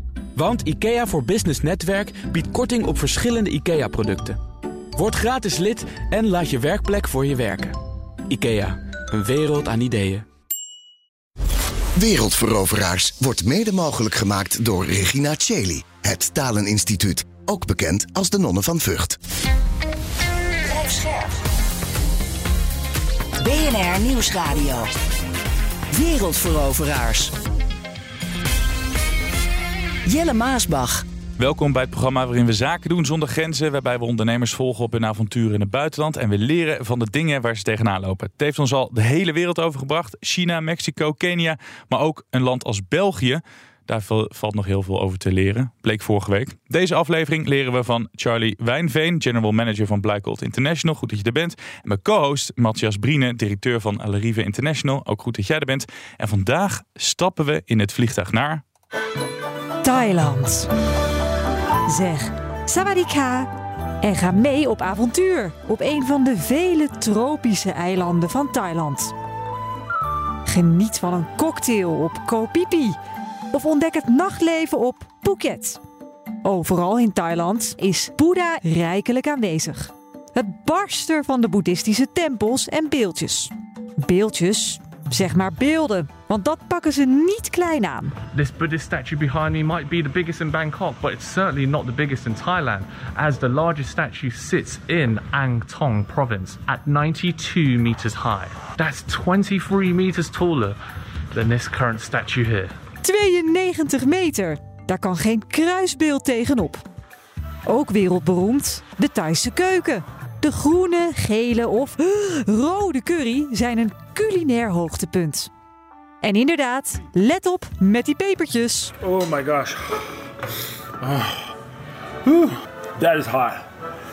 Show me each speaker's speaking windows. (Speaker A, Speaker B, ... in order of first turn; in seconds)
Speaker A: 0.3-4.4, 5.0-7.8, 8.3-10.2
Speaker B: 11.9-19.2
Speaker C: 20.7-21.3, 23.4-24.9, 25.9-27.3, 30.0-31.0
Speaker D: 31.4-58.6
Speaker E: 59.8-60.7, 61.9-63.5, 64.0-69.1, 70.5-73.0, 73.5-75.8, 76.4-88.2, 103.0-106.8, 107.7-115.5, 116.2-118.9
Speaker F: 88.3-100.8, 101.3-102.8
Speaker G: 119.0-120.0, 121.0-121.5, 122.2-123.7